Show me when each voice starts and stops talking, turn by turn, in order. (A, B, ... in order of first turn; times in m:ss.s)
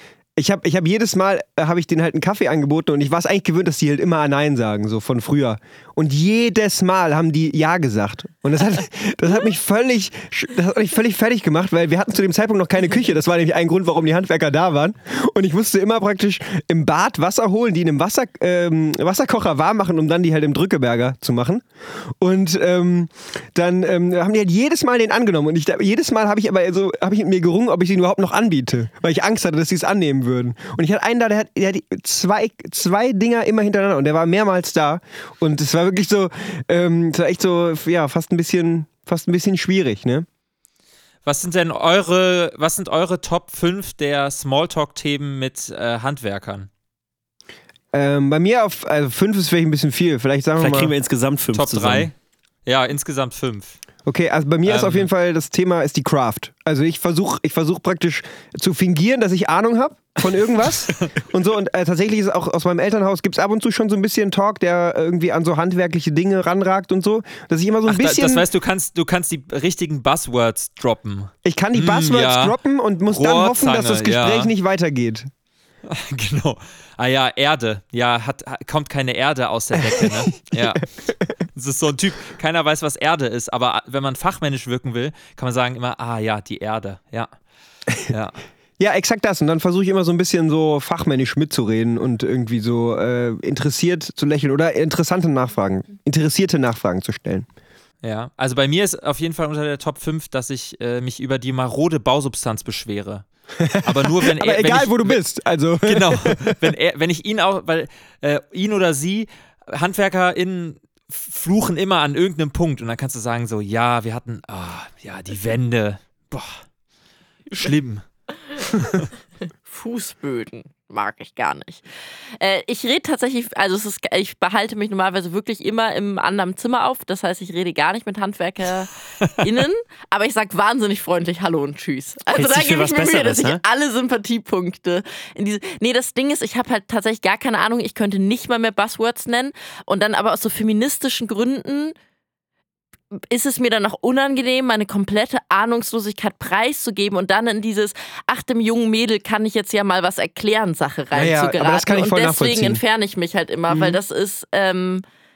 0:00.4-0:21.6 A
0:22.2-0:40.3 A
0:41.2-0:46.7 B
0:47.9-0:50.9 A
0:50.6-0:52.1 C
0:51.5-0:52.1 B
0:52.7-0:53.8 B
0:54.1-1:08.4 A
0:54.7-0:55.1 B
1:07.9-1:12.6 B
1:11.4-1:15.3 A
1:13.1-1:14.5 B
1:15.9-1:20.9 B
1:20.0-1:20.7 A
1:21.5-1:27.3 B
1:28.0-1:28.4 B
1:28.8-1:37.5 A
1:38.0-1:43.2 B
1:43.6-1:46.6 A
1:43.8-1:45.2 B
1:45.8-1:56.6 B
1:57.5-1:58.0 B
1:58.7-1:59.0 B
1:59.7-2:01.8 D
2:02.4-2:22.0 D
2:12.3-2:13.6 C
2:23.2-2:35.0 D
2:31.1-2:32.8 A